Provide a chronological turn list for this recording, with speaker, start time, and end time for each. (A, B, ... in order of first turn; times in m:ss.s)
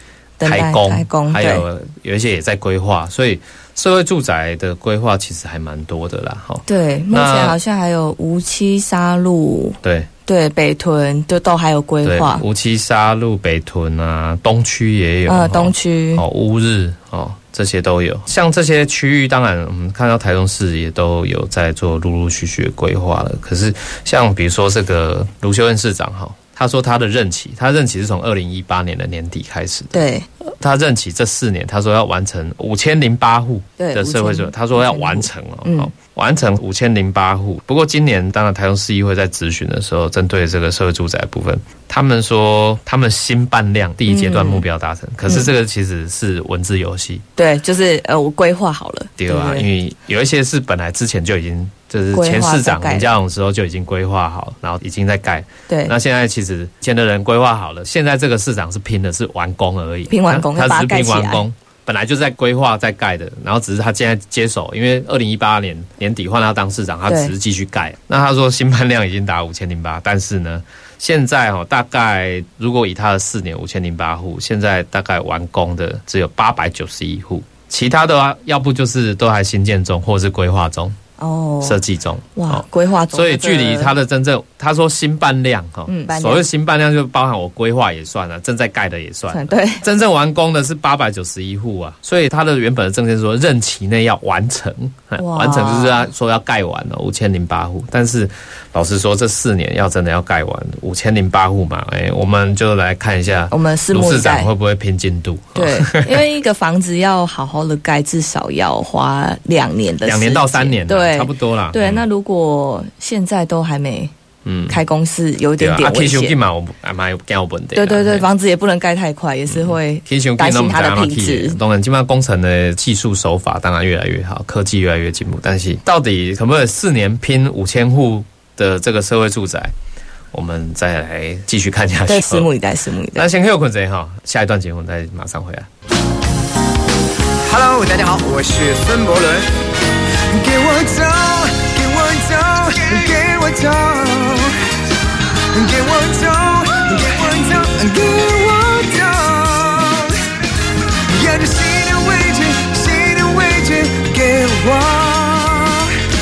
0:00.4-0:01.6 A
0:00.4-0:07.6 B
0:06.6-0:12.4 A
0:09.8-0:10.1 B
0:12.0-0:47.2 B
0:15.3-0:16.2 A
0:29.9-0:30.2 A
0:33.8-0:35.9 A
0:44.1-0:44.6 A
0:47.4-0:49.7 A
0:49.2-1:21.0 B
0:52.1-0:53.1 A
0:55.7-0:55.9 A
1:00.1-1:01.4 A
1:07.1-1:07.3 A
1:21.2-1:21.8 A
1:21.6-1:46.2 B
1:22.4-1:23.9 A
1:25.9-1:26.4 A
1:29.3-1:29.8 A
1:35.2-1:36.1 A
1:43.5-1:44.5 A
1:45.5-1:54.1 A
1:50.0-1:52.0 B
1:54.4-1:54.8 B
1:54.7-1:56.4 A
1:55.6-1:58.3 B
1:57.7-2:01.6 A
1:59.5-2:09.7 B
2:10.3-2:12.5 B
2:12.1-2:13.3 A
2:13.1-2:15.7 B
2:17.4-2:19.6 C
2:20.3-2:24.5 C
2:25.5-2:30.2 C
2:31.1-2:35.9 C